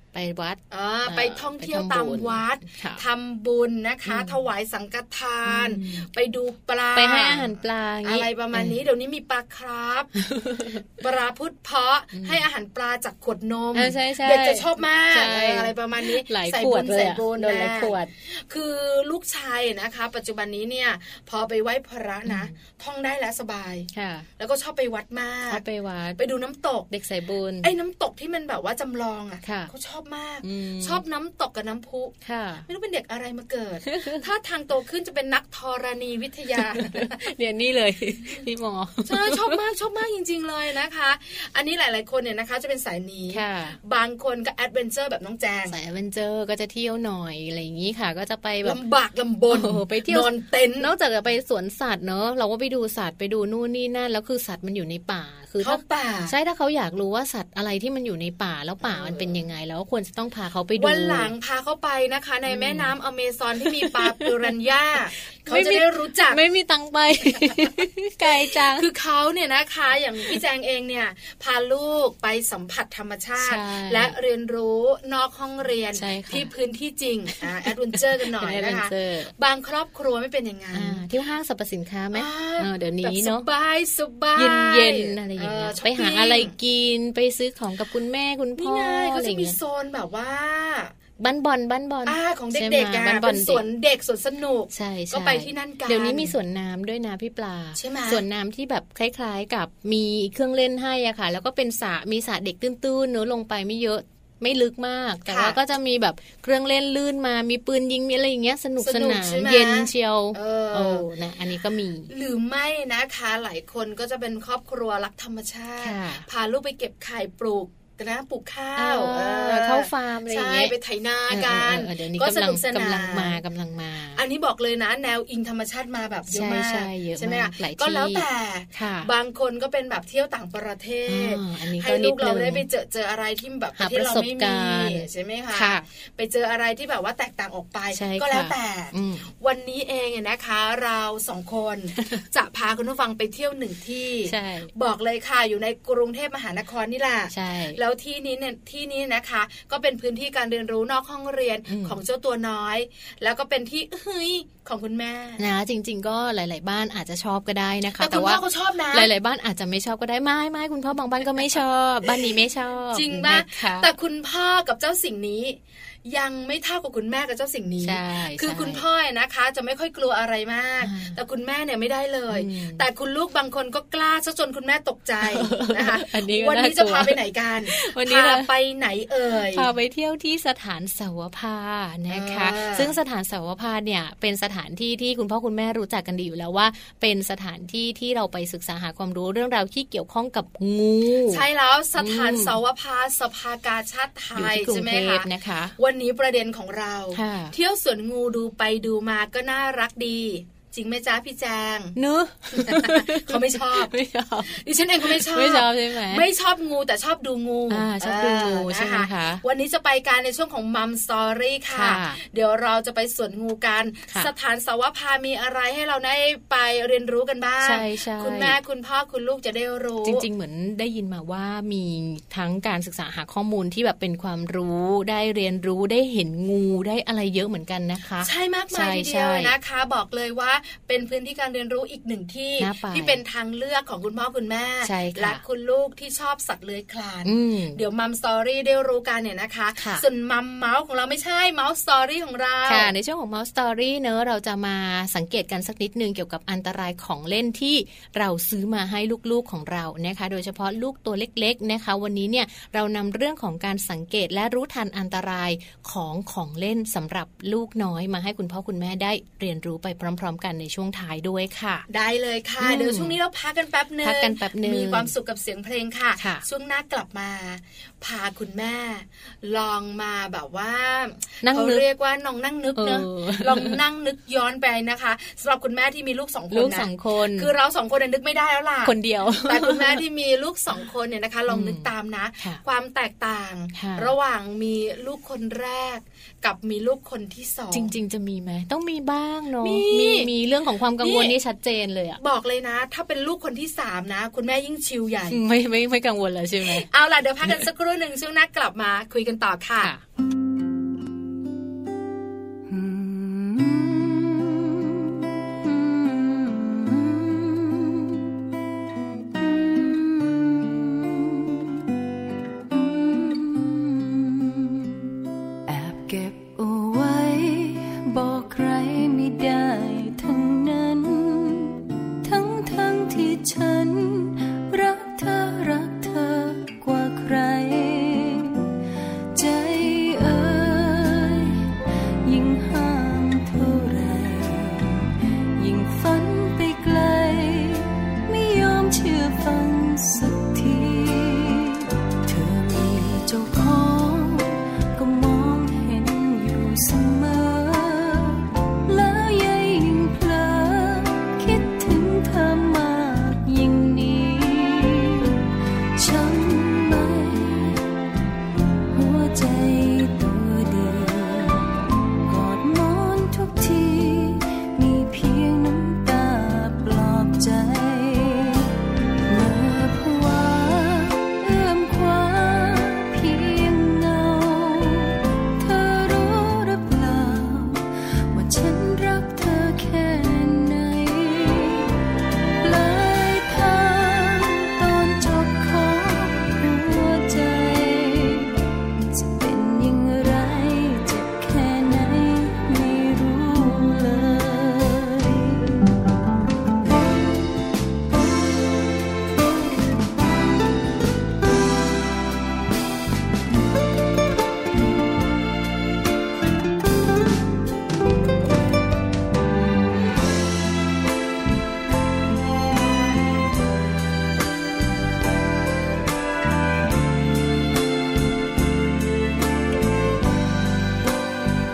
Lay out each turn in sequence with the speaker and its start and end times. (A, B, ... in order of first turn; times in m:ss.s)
0:00.1-0:03.0 A
0:00.7-0:07.5 B
0:04.1-0:04.3 A
0:05.4-0:06.1 A
0:06.9-0:08.8 A
0:08.0-0:10.1 B
0:10.2-0:10.8 A
0:11.0-0:25.6 B
0:12.2-0:12.4 A
0:13.7-0:18.1 A
0:22.2-0:22.5 A
0:23.9-0:24.3 A
0:25.5-0:26.2 A
0:26.2-0:26.9 B
0:26.9-0:27.7 A
0:27.6-0:32.1 B
0:29.4-0:29.7 A
0:30.4-0:31.0 A
0:32.2-0:32.7 A
0:32.7-0:37.2 B
0:33.9-0:34.2 A
0:36.6-0:39.6 A
0:39.0-0:45.8 B
0:43.3-0:43.8 A
0:45.7-0:48.8 A
0:48.6-0:50.9 B
0:49.5-1:01.3 A
0:55.6-0:56.3 B
0:58.8-0:59.4 B
1:00.8-1:06.4 B
1:02.5-1:02.9 A
1:03.8-1:04.5 A
1:05.4-1:08.9 A
1:07.2-1:07.7 B
1:08.4-1:21.0 B
1:13.4-1:14.1 A
1:15.9-1:16.5 A
1:18.2-1:19.3 A
1:20.7-1:23.4 A
1:22.1-1:26.5 B
1:24.4-1:29.6 A
1:28.6-1:30.9 B
1:31.2-1:33.6 A
1:32.0-1:36.3 B
1:34.7-1:52.1 A
1:37.8-1:38.2 B
1:45.2-1:45.6 B
1:48.8-1:51.1 B
1:52.1-2:03.4 B
1:55.8-1:56.3 A
1:58.8-2:00.7 A
2:01.3-2:04.2 A
2:04.2-2:35.4 B
2:06.3-2:09.1 A
2:11.1-2:12.6 A
2:13.8-2:15.8 A
2:17.9-2:19.3 A
2:22.0-2:22.2 A
2:24.3-2:24.7 A
2:27.3-2:27.8 A
2:31.7-2:32.0 A
2:35.4-2:43.9 A
2:38.0-2:39.1 B
2:42.9-2:59.6 B
2:47.8-2:48.8 A
2:50.8-2:51.2 A
2:52.3-2:52.8 A
2:55.2-2:58.5 A
2:59.5-3:11.4 A
3:02.1-3:02.9 B
3:11.3-3:22.0 B
3:12.0-3:12.6 A
3:14.3-3:15.7 A
3:17.1-3:17.5 A
3:22.0-3:26.2 A
3:22.5-3:23.9 B
3:24.5-3:40.2 B
3:27.7-3:29.4 A
3:31.7-3:32.2 A
3:37.6-3:38.6 A
3:40.0-3:49.5 A
3:48.2-4:02.9 B
3:52.6-3:53.2 A
3:54.8-3:55.4 A
3:57.2-3:57.8 A
3:59.8-4:00.0 A
4:02.7-4:21.8 A
4:21.9-4:47.9 B
4:22.6-4:23.2 A
4:24.0-4:25.1 A
4:26.2-4:26.4 A
4:31.4-4:31.8 A
4:32.8-4:33.8 A
4:36.5-4:37.5 A
4:38.8-4:40.0 A
4:41.5-4:41.9 A
4:43.7-4:44.1 A
4:47.7-4:52.2 A
4:49.6-4:50.3 B
4:51.0-4:51.4 B
4:52.2-4:55.4 B
4:55.3-4:56.8 A
4:56.6-4:59.9 B
5:02.7-5:08.3 C
5:09.3-5:11.8 C
5:12.7-5:15.1 C
5:15.6-5:28.8 C
5:29.3-5:57.9 C
5:58.9-6:21.9 C
6:22.6-6:35.8 C